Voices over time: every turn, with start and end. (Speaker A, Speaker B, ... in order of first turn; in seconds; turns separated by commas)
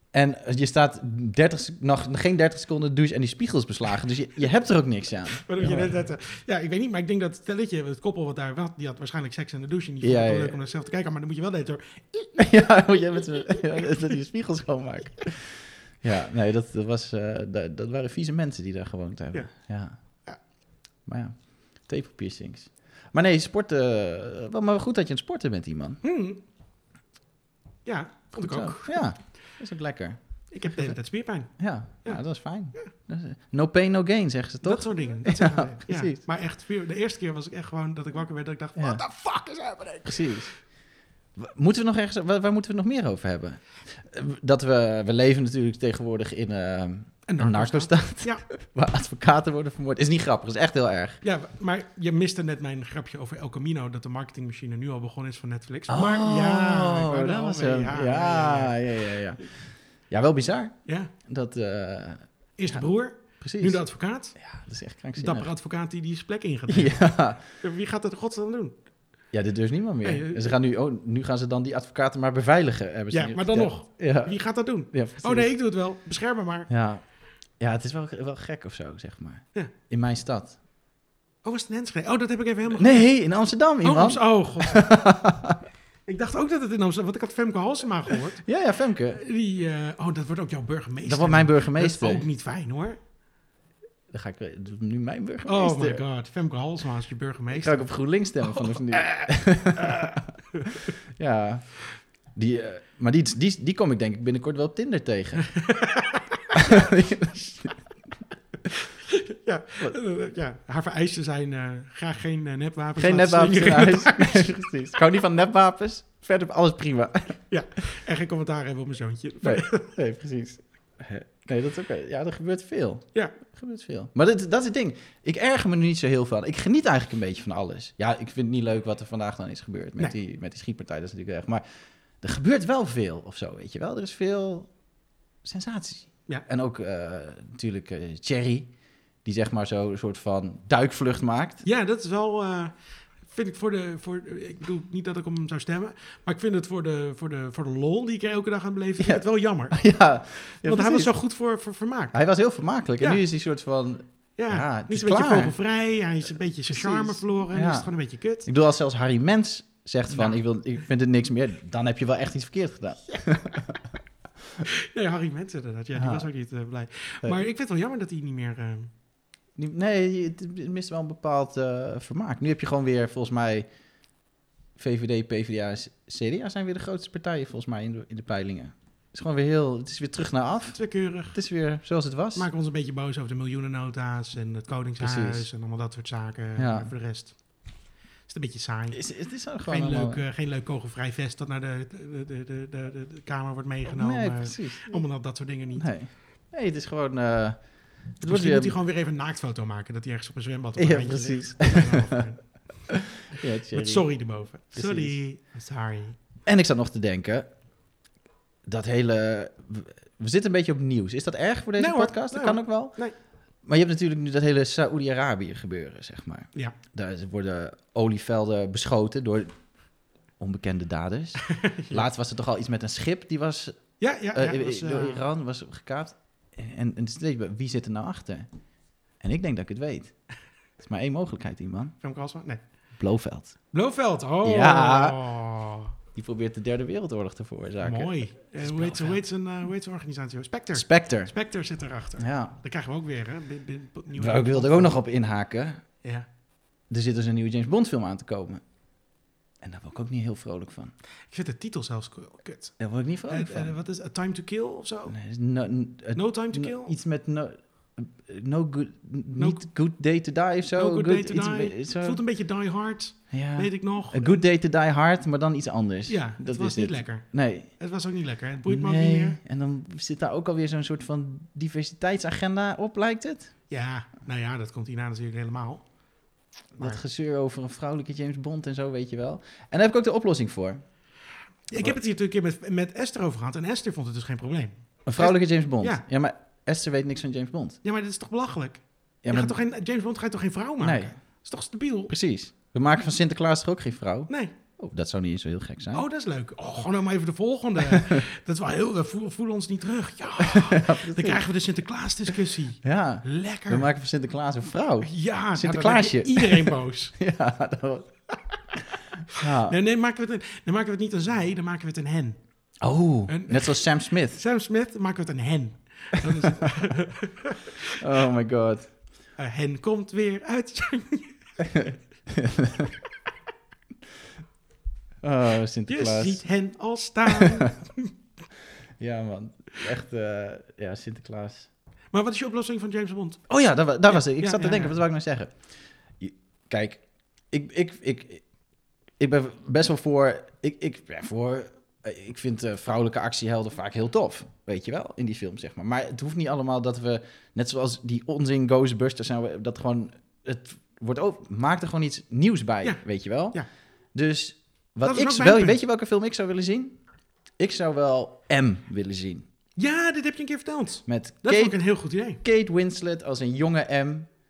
Speaker A: 0.1-6.0, Speaker B: 5.4-12.4, Speaker A: 10.0-10.6, Speaker A: 12.4-19.9, Speaker A: 21.1-26.0, Speaker B: 26.0-26.4, Speaker B: 27.9-29.0, Speaker A: 28.4-31.0, Speaker B: 30.5-32.2, Speaker A: 31.6-36.2, Speaker B: 34.6-40.5, Speaker A: 38.8-39.0, Speaker A: 40.0-40.5, Speaker A: 41.4-51.2, Speaker B: 47.3-48.5, Speaker B: 51.2-58.8, Speaker A: 55.9-59.4, Speaker A: 60.1-63.8, Speaker B: 60.9-61.1, Speaker B: 62.6-64.4, Speaker A: 64.4-65.5, Speaker B: 65.2-68.8, Speaker A: 66.7-67.4, Speaker A: 69.3-75.5, Speaker B: 70.0-70.5, Speaker B: 73.1-76.7, Speaker A: 76.7-77.0, Speaker A: 77.6-80.6, Speaker B: 81.4-83.0, Speaker A: 82.7-85.6, Speaker B: 83.8-85.0, Speaker B: 86.1-88.4, Speaker A: 88.4-89.2, Speaker B: 89.1-93.0, Speaker A: 91.0-92.3, Speaker A: 94.1-96.0, Speaker B: 95.5-97.9, Speaker A: 97.5-100.3, Speaker B: 98.4-100.9, Speaker A: 101.2-101.7, Speaker A: 102.3-105.5, Speaker B: 105.5-106.6, Speaker A: 106.5-107.7, Speaker B: 108.7-114.5, Speaker A: 113.0-117.4, Speaker B: 117.5-119.9, Speaker A: 119.4-131.6, Speaker A: 132.2-134.7, Speaker A: 135.4-138.7, Speaker A: 139.2-141.6, Speaker B: 141.6-142.7, Speaker B: 143.2-149.8, Speaker A: 149.0-151.2, Speaker B: 150.6-152.2, Speaker A: 152.1-155.6, Speaker B: 154.4-158.5, Speaker A: 156.7-157.9, Speaker A: 158.4-163.7, Speaker B: 160.1-160.4, Speaker B: 164.7-168.9, Speaker A: 165.9-166.3, Speaker A: 169.6-173.7, Speaker A: 174.8-182.5, Speaker B: 180.7-181.4, Speaker B: 182.3-187.4, Speaker A: 185.0-185.5, Speaker A: 186.6-186.9, Speaker B: 188.3-189.0, Speaker A: 188.9-190.2, Speaker B: 189.7-195.9, Speaker A: 193.9-195.0, Speaker A: 195.8-197.6, Speaker A: 198.2-198.7, Speaker B: 198.2-202.4, Speaker A: 200.8-202.1, Speaker A: 202.9-204.1, Speaker B: 203.7-206.2, Speaker A: 204.7-205.2, Speaker A: 206.5-207.5, Speaker A: 208.7-213.0, Speaker B: 211.8-213.2, Speaker A: 213.6-219.6, Speaker A: 220.4-228.5, Speaker B: 221.5-222.1, Speaker B: 224.0-225.2, Speaker A: 229.2-230.2, Speaker A: 230.8-231.9, Speaker B: 232.0-232.6, Speaker A: 233.0-233.6, Speaker B: 233.7-235.9, Speaker A: 234.4-235.2, Speaker A: 236.2-239.2, Speaker B: 237.8-245.0, Speaker A: 240.7-241.3, Speaker A: 242.2-242.6, Speaker A: 244.2-245.8, Speaker A: 246.9-248.6, Speaker A: 249.6-250.9, Speaker B: 251.3-255.2, Speaker A: 252.8-253.7, Speaker A: 255.1-262.2, Speaker B: 256.1-256.9, Speaker B: 259.4-259.6, Speaker B: 260.7-264.4, Speaker A: 263.3-267.7, Speaker B: 266.1-269.4, Speaker A: 268.7-273.5, Speaker B: 273.7-275.9, Speaker A: 276.8-280.8, Speaker B: 281.7-286.0, Speaker A: 285.1-287.8, Speaker B: 287.8-292.1, Speaker A: 289.2-289.6, Speaker A: 290.8-291.1, Speaker A: 292.1-296.1, Speaker B: 294.3-294.5, Speaker B: 295.9-303.9, Speaker A: 297.9-298.2, Speaker A: 300.4-301.4, Speaker A: 302.8-308.1, Speaker B: 305.0-307.1, Speaker A: 309.3-309.8, Speaker B: 309.3-312.4, Speaker A: 312.8-314.4, Speaker B: 313.3-318.0, Speaker A: 316.2-316.5, Speaker A: 318.0-318.9, Speaker B: 319.4-321.8, Speaker A: 321.6-322.9, Speaker A: 325.2-326.4, Speaker B: 325.9-328.1, Speaker A: 327.3-327.6, Speaker A: 329.0-331.7, Speaker B: 332.1-333.5, Speaker A: 333.5-335.6, Speaker B: 334.1-335.0, Speaker A: 336.2-338.4, Speaker A: 339.2-353.6, Speaker B: 352.8-353.7, Speaker A: 354.1-357.0, Speaker B: 355.0-355.8, Speaker A: 357.6-359.5, Speaker B: 359.8-362.4, Speaker A: 361.1-361.8, Speaker A: 362.4-364.3